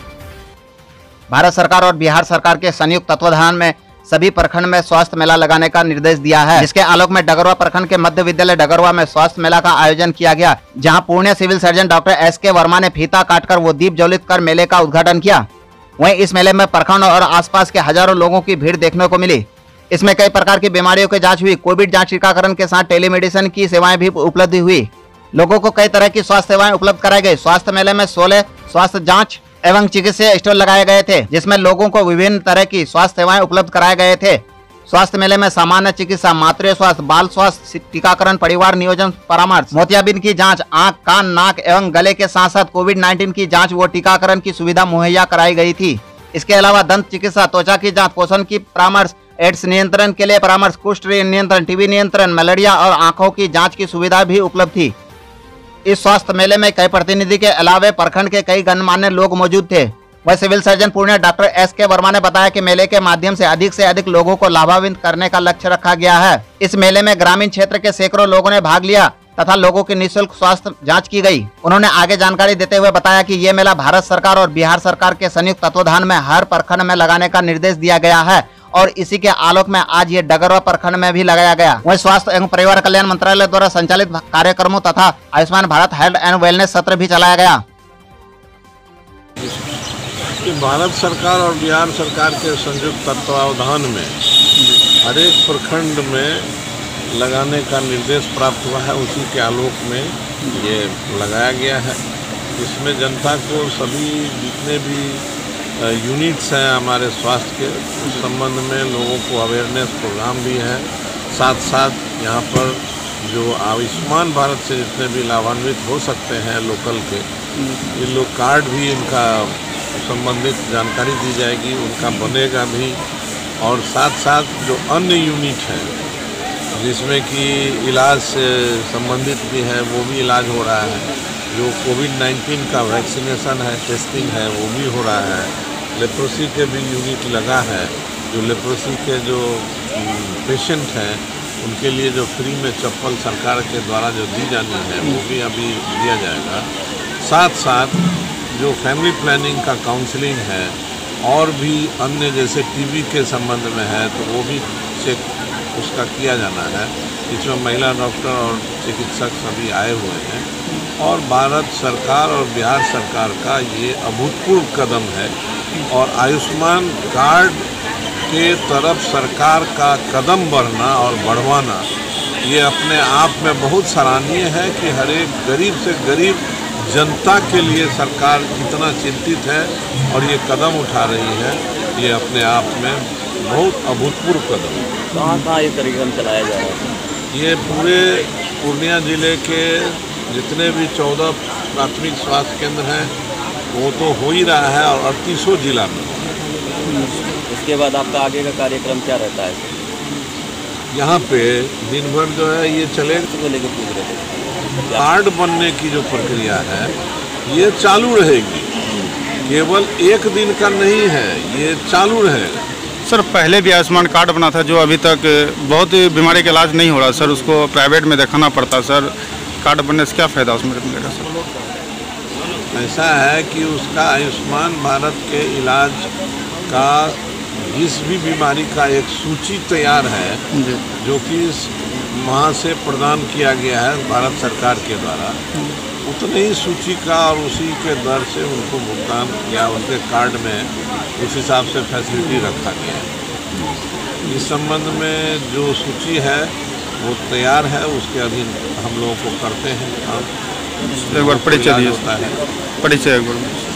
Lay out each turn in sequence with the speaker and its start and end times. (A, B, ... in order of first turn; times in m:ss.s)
0:01.3-0:15.4 A
0:16.0-0:54.9 A
0:55.8-1:27.6 A
1:30.4-1:34.2 B
1:35.0-1:36.5 B
1:37.1-1:42.0 B
1:42.5-1:57.3 B
1:57.8-2:03.0 B
2:03.6-2:06.0 B
2:06.7-2:47.7 B
2:48.2-2:51.9 B
2:52.4-3:05.0 B
3:05.1-3:06.8 C
3:07.3-3:13.2 B
3:13.7-3:16.4 B
3:17.4-3:19.7 C
3:20.9-3:23.3 B
3:23.3-3:24.3 C
3:24.8-3:25.1 C
3:24.9-3:32.6 B
3:33.1-3:41.4 D
3:42.7-3:46.1 B
3:46.7-3:50.4 B
3:50.5-3:50.8 D
3:51.0-3:55.4 B
3:56.0-4:03.1 B
4:04.2-4:12.4 B
4:11.1-4:12.0 D
4:12.8-4:13.6 D